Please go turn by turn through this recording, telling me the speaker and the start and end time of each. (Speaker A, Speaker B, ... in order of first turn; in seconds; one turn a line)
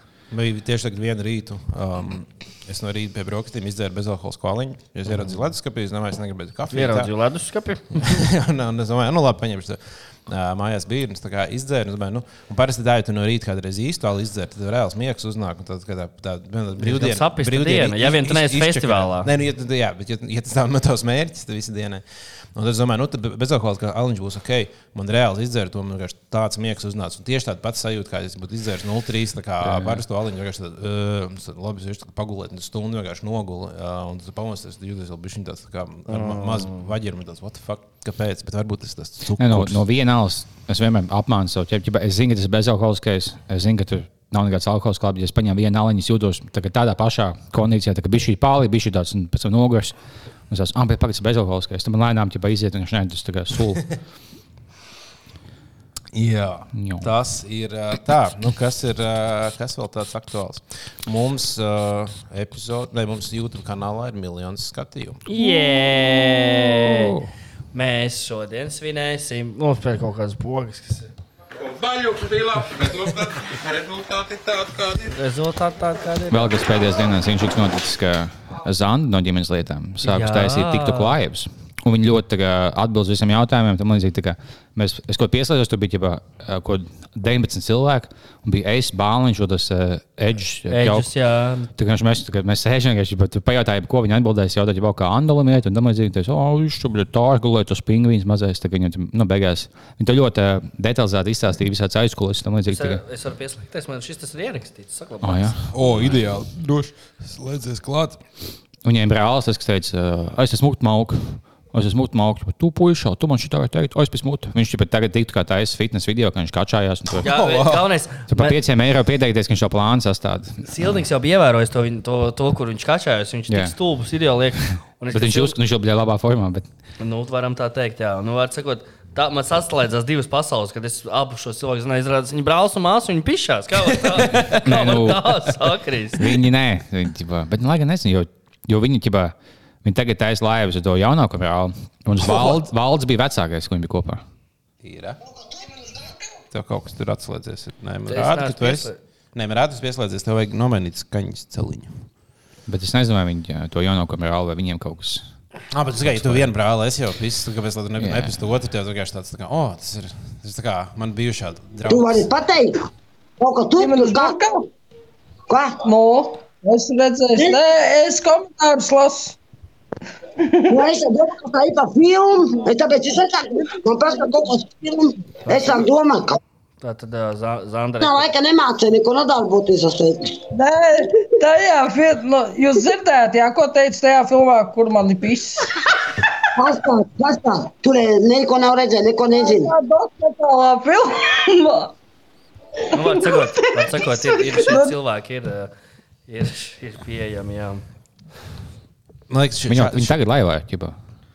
Speaker A: 0.3-7.1
Speaker B: 6.7-8.2
Speaker A: 7.9-39.8
Speaker B: 16.8-19.3
Speaker C: 29.6-30.0
Speaker B: 36.1-36.8
Speaker C: 39.4-50.0
Speaker C: 50.5-54.0
Speaker A: 56.1-65.2
Speaker C: 56.7-57.1
Speaker B: 65.3-67.2
Speaker C: 65.4-67.3
Speaker B: 67.7-71.1
Speaker B: 75.0-76.5
Speaker C: 76.3-91.1
Speaker B: 80.0-81.2
Speaker B: 90.7-91.7
Speaker C: 91.8-103.0
Speaker B: 102.7-105.7
Speaker C: 105.2-105.7
Speaker A: 105.7-108.2
Speaker C: 108.8-117.3
Speaker B: 117.2-118.6
Speaker A: 117.2-117.9
Speaker C: 118.3-120.6
Speaker B: 120.6-125.6
Speaker C: 123.5-123.8
Speaker C: 125.1-126.7
Speaker B: 127.0-136.4
Speaker C: 134.1-144.2
Speaker A: 144.8-145.2
Speaker A: 146.5-152.1
Speaker B: 148.1-149.0
Speaker C: 152.7-155.2
Speaker A: 155.7-162.3
Speaker C: 156.0-156.5
Speaker C: 158.0-158.5
Speaker D: 161.9-162.8
Speaker D: 163.4-164.5
Speaker E: 163.8-164.6
Speaker D: 165.5-165.8
Speaker E: 165.8-169.4
Speaker D: 167.4-167.6
Speaker D: 170.7-176.4
Speaker B: 175.5-175.8
Speaker B: 176.8-178.3
Speaker D: 178.0-180.4
Speaker E: 180.5-185.7
Speaker D: 186.6-189.7
Speaker E: 189.4-191.9
Speaker B: 192.9-195.7
Speaker E: 192.9-194.9
Speaker B: 196.3-197.8
Speaker A: 199.3-200.2
Speaker C: 199.7-200.9